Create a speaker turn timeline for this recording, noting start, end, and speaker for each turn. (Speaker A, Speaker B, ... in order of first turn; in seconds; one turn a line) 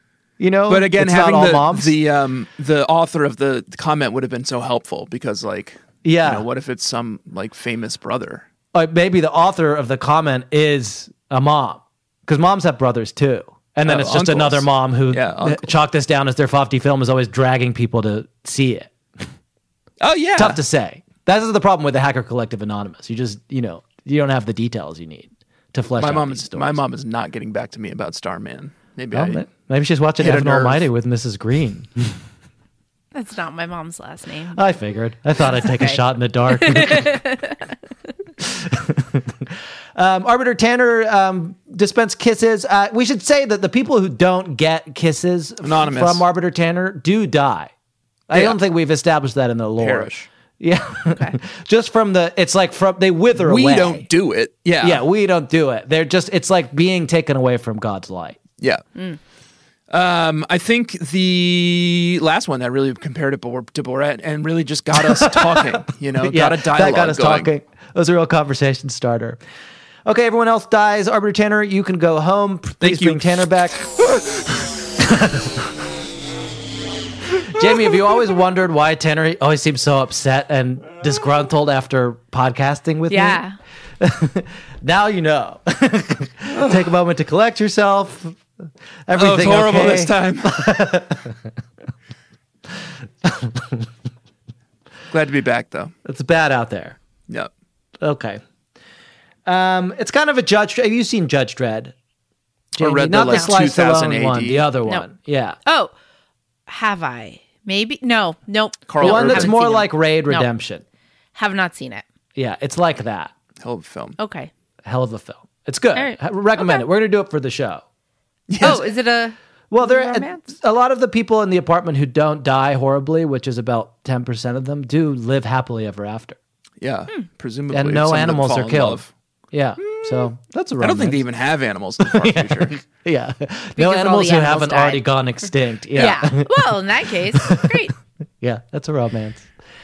Speaker A: 0.4-1.9
Speaker B: 0.7-8.5
Speaker A: 6.0-6.5
Speaker A: 8.7-19.3
Speaker B: 13.8-15.7
Speaker B: 20.0-20.6
Speaker A: 20.4-26.8
Speaker B: 26.0-29.5
Speaker A: 29.1-32.2
Speaker B: 30.2-30.9
Speaker C: 33.1-34.6
Speaker A: 34.5-37.2
Speaker C: 35.5-37.5
Speaker A: 38.4-47.7
Speaker B: 45.6-46.2
Speaker A: 48.3-54.0
Speaker B: 48.3-48.6
Speaker B: 49.8-50.3
Speaker B: 53.4-55.0
Speaker A: 54.8-58.4
Speaker B: 59.9-67.5
Speaker A: 65.0-65.6
Speaker A: 66.2-69.4
Speaker A: 70.0-74.4
Speaker B: 72.8-73.5
Speaker A: 75.0-75.7
Speaker A: 77.4-83.4
Speaker C: 83.1-83.6
Speaker A: 84.0-88.4
Speaker A: 89.1-91.4
Speaker B: 89.2-90.7
Speaker A: 93.2-93.9
Speaker B: 95.1-95.9
Speaker A: 96.0-97.0
Speaker A: 98.0-98.4
Speaker A: 99.5-101.9
Speaker A: 102.7-105.6
Speaker B: 102.8-104.7
Speaker C: 103.3-103.5
Speaker C: 105.7-105.9
Speaker C: 106.7-110.5
Speaker B: 108.9-109.5
Speaker A: 109.0-110.8
Speaker C: 111.3-112.0
Speaker A: 112.4-113.3
Speaker B: 113.6-114.2
Speaker C: 114.2-114.5
Speaker A: 114.8-117.8
Speaker C: 116.0-116.8
Speaker B: 118.5-118.9
Speaker C: 118.6-120.5
Speaker A: 119.7-126.4
Speaker B: 126.8-129.1
Speaker A: 127.7-131.2
Speaker B: 129.8-132.8
Speaker A: 132.0-137.9
Speaker C: 133.8-135.0
Speaker C: 135.9-137.9
Speaker A: 138.4-139.5